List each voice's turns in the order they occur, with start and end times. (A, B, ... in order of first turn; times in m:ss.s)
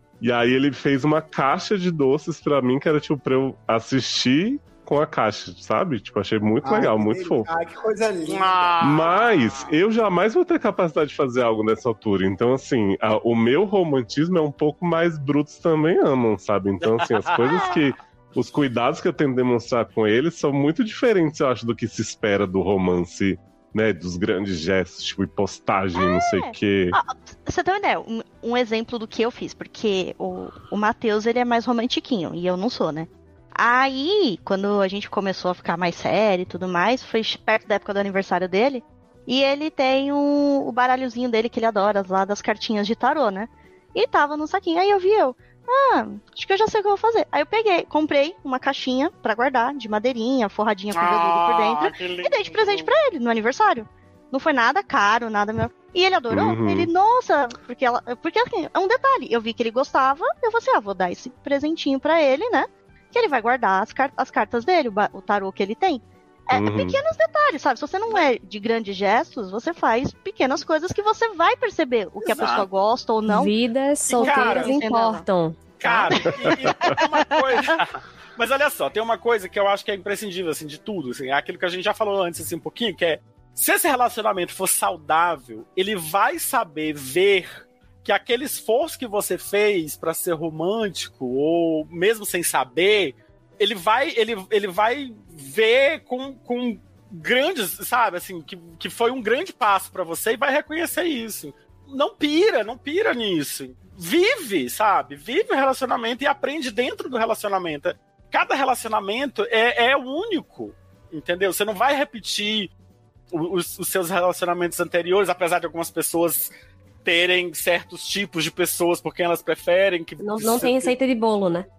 0:00.2-0:07.5 A
0:06.6-0:09.0 B
0:08.3-0:09.7 C
0:08.8-0:27.0 A
0:16.8-0:17.9 C
0:25.9-1:13.5 D
0:50.9-0:52.9 C
0:56.3-0:56.9 A
1:06.5-1:07.0 A
1:12.2-1:12.7 C
1:13.3-1:16.2 E
1:14.1-1:14.8 C
1:14.1-1:15.2 D
1:15.8-1:52.7 C
1:16.6-1:16.9 A
1:53.3-1:56.5 C
1:57.0-2:00.9 C
2:00.2-2:01.7 E